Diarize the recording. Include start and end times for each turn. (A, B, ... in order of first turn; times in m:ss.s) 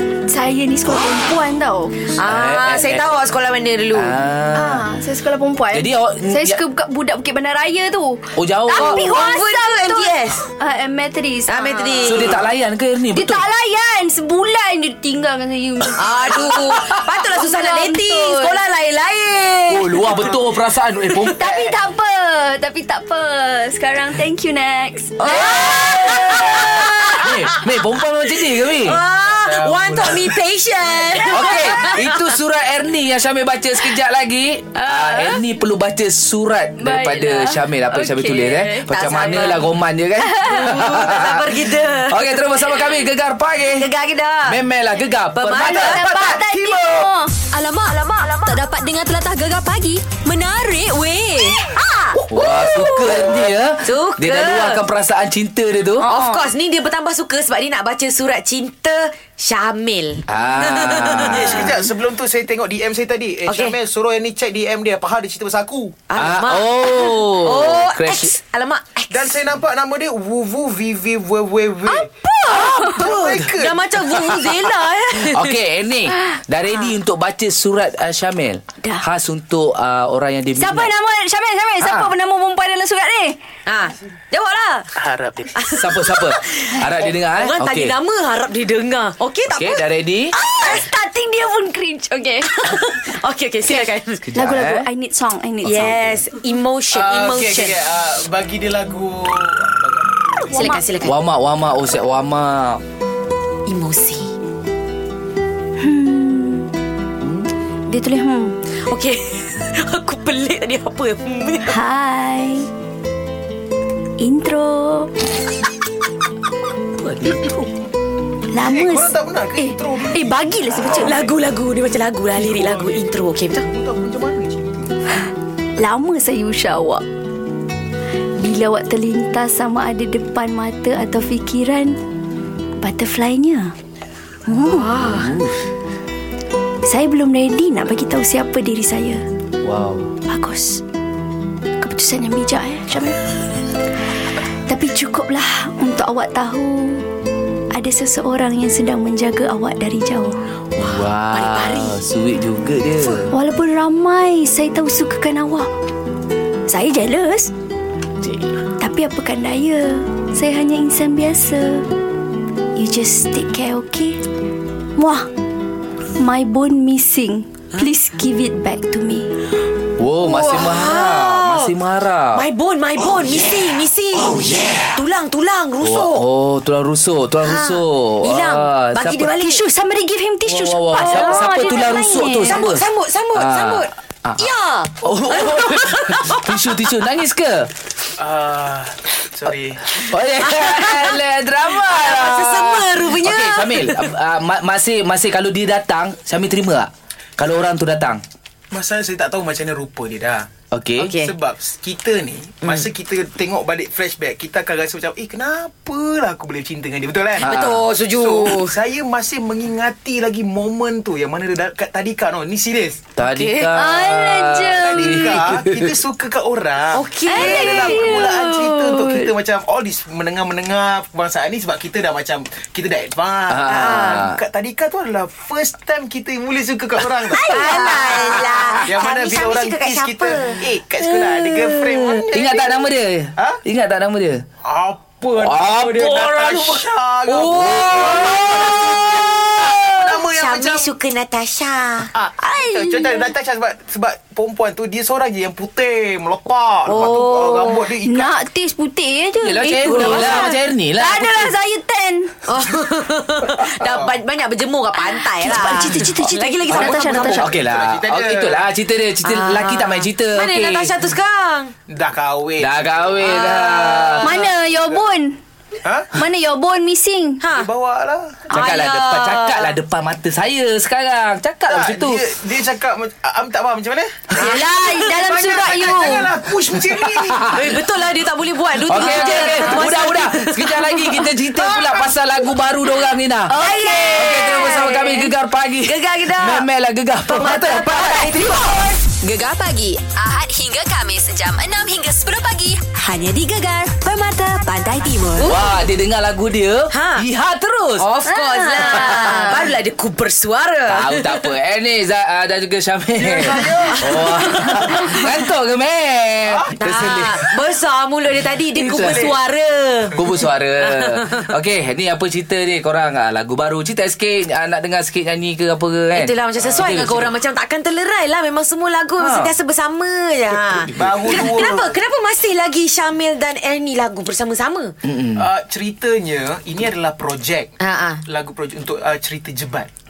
0:00.3-0:02.1 A
0:02.2-0:04.2 B
0:02.2-0:03.1 C
0:03.9-0:04.8 C
0:04.5-0:12.4 A
0:05.7-0:06.6 C
0:08.4-0:09.2 C
0:08.8-0:10.5 B
0:11.5-0:12.4 B
0:12.0-0:13.4 C
0:13.2-0:16.7 A
0:16.0-0:20.3 B
0:17.2-0:18.6 A
0:19.7-0:21.4 C
0:20.0-0:20.4 D
0:21.1-0:21.4 B
0:21.4-0:26.6 A
0:21.4-0:21.8 D
0:25.2-0:27.7 B
0:25.3-0:29.0 C
0:28.4-0:32.3 B
0:29.0-0:30.4 D
0:31.2-0:32.0 A
0:31.2-0:43.9 C
0:34.9-0:35.4 A
0:36.8-0:38.6 A
0:38.6-0:39.7 B
0:40.2-0:40.7 A
0:40.5-0:42.3 B
0:43.8-0:44.6 B
0:44.4-0:46.1 C
0:45.4-0:46.1 B
0:45.6-0:47.1 D
0:45.6-0:47.4 A
0:47.5-0:51.7 E
0:47.9-0:48.6 B
0:51.4-0:53.3 B
0:52.3-0:56.1 C
0:52.7-0:53.2 A
0:53.8-0:54.8 B
0:56.0-0:56.5 A
0:56.1-1:01.8 B
1:00.3-1:01.8 C
1:01.3-1:06.0 D
1:03.5-1:03.8 B
1:06.1-1:09.4 B
1:06.2-1:08.4 C
1:09.1-1:13.8 D
1:11.9-1:13.2 A
1:12.5-1:15.6 B
1:14.1-1:14.6 C
1:15.1-1:20.9 C
1:16.7-1:17.0 B
1:20.6-1:23.4 A
1:21.8-1:22.1 C
1:23.7-1:24.9 B
1:25.0-1:25.5 D
1:25.6-1:29.8 B
1:25.8-1:27.9 C
1:29.6-1:30.3 C
1:30.4-1:30.8 B
1:30.5-1:32.5 A
1:32.4-1:34.2 B
1:34.3-1:34.9 C
1:34.3-1:36.4 A
1:35.6-1:37.8 B
1:36.9-1:40.3 D
1:40.4-1:40.9 A
1:40.5-1:41.2 B
1:41.0-1:42.8 C
1:43.7-1:44.3 B
1:45.8-1:46.7 A
1:47.9-1:48.6 A
1:48.9-1:51.8 B
1:51.6-1:52.7 A
1:54.2-1:55.1 A
1:57.0-1:57.7 C
1:58.5-2:01.3 A
1:58.6-2:01.4 D
2:01.0-2:03.7 B
2:02.3-2:05.0 D
2:05.8-2:07.0 A
2:08.4-2:12.0 A
2:12.8-2:13.7 A
2:14.5-2:14.9 A
2:14.5-2:15.4 B
2:15.0-2:15.6 C
2:16.8-2:19.2 A
2:19.6-2:20.1 C
2:20.3-2:20.8 A
2:21.8-2:23.2 A
2:24.7-2:27.1 A
2:27.7-2:30.4 A
2:30.8-2:33.3 C
2:30.8-2:32.0 B
2:33.2-2:35.7 A
2:36.7-2:37.5 A
2:38.2-2:38.5 C
2:38.8-2:41.9 A
2:42.8-2:44.2 A
2:45.0-2:45.3 A
2:46.2-2:49.4 A
2:50.0-2:52.4 C
2:50.2-2:51.8 B
2:52.3-2:56.2 B
2:55.8-2:59.3 C
2:57.4-2:59.6 B
2:59.4-3:02.7 A
3:00.5-3:04.5 C
3:00.9-3:06.5 B
3:05.0-3:07.7 C
3:08.2-3:10.0 D
3:10.0-3:18.2 C
3:10.4-3:14.1 B
3:18.7-3:20.5 D
3:20.7-3:21.1 C
3:21.0-3:21.3 B
3:21.1-3:33.0 D
3:22.6-3:22.9 B
3:27.4-3:27.8 C
3:27.4-3:28.8 B
3:33.2-3:35.9 C
3:33.2-3:33.8 B
3:33.7-3:35.4 A
3:34.8-3:52.9 D
3:36.9-3:38.2 B
3:37.3-3:39.3 A
3:43.5-3:44.4 C
3:43.7-3:44.3 B
3:47.3-3:50.6 B
3:47.8-3:48.8 C
3:52.3-3:54.4 C
3:54.6-3:58.8 D
3:55.4-3:59.8 C
3:57.5-4:02.1 B
3:59.8-4:00.9 D
4:02.1-4:08.4 D
4:02.4-4:03.3 A
4:06.9-4:07.4 B
4:06.9-4:12.3 A
4:09.4-4:11.6 C
4:09.9-4:10.5 B
4:12.5-4:17.5 B
4:13.8-4:14.2 D
4:15.0-4:17.5 A
4:16.7-4:20.9 C
4:17.2-4:18.6 D
4:19.2-4:21.7 B
4:21.9-4:25.0 D
4:22.6-4:24.4 C
4:23.2-4:24.4 B
4:24.2-4:25.4 A
4:25.8-4:26.2 D
4:26.1-4:27.4 A
4:27.4-4:27.7 B
4:27.5-4:28.5 D
4:28.5-4:32.2 C
4:28.5-4:29.8 B
4:31.7-4:37.5 D
4:34.4-4:36.1 B
4:34.4-4:36.4 A
4:37.2-4:37.7 C
4:37.5-4:41.3 B
4:38.8-4:43.6 C
4:38.9-4:40.1 A
4:43.5-4:44.3 A
4:43.6-4:46.7 B
4:44.1-4:48.6 C
4:47.3-4:49.0 B
4:49.2-4:52.8 E
4:53.0-4:55.7 B
4:55.4-4:58.1 C
4:56.9-4:57.2 B
4:58.0-5:01.5 B
4:58.3-4:59.6 A
4:58.9-4:59.5 C
5:00.9-5:07.4 C
5:03.2-5:04.4 D
5:03.9-5:05.4 B
5:06.8-5:11.5 B
5:08.8-5:09.4 C
5:10.1-5:17.4 C
5:16.1-5:24.9 B
5:16.6-5:17.1 D
5:19.2-5:19.5 C
5:20.5-5:21.6 C
5:21.0-5:22.0 D
5:25.0-5:25.5 C
5:25.4-5:27.7 D
5:27.8-5:28.2 B
5:28.2-5:29.9 D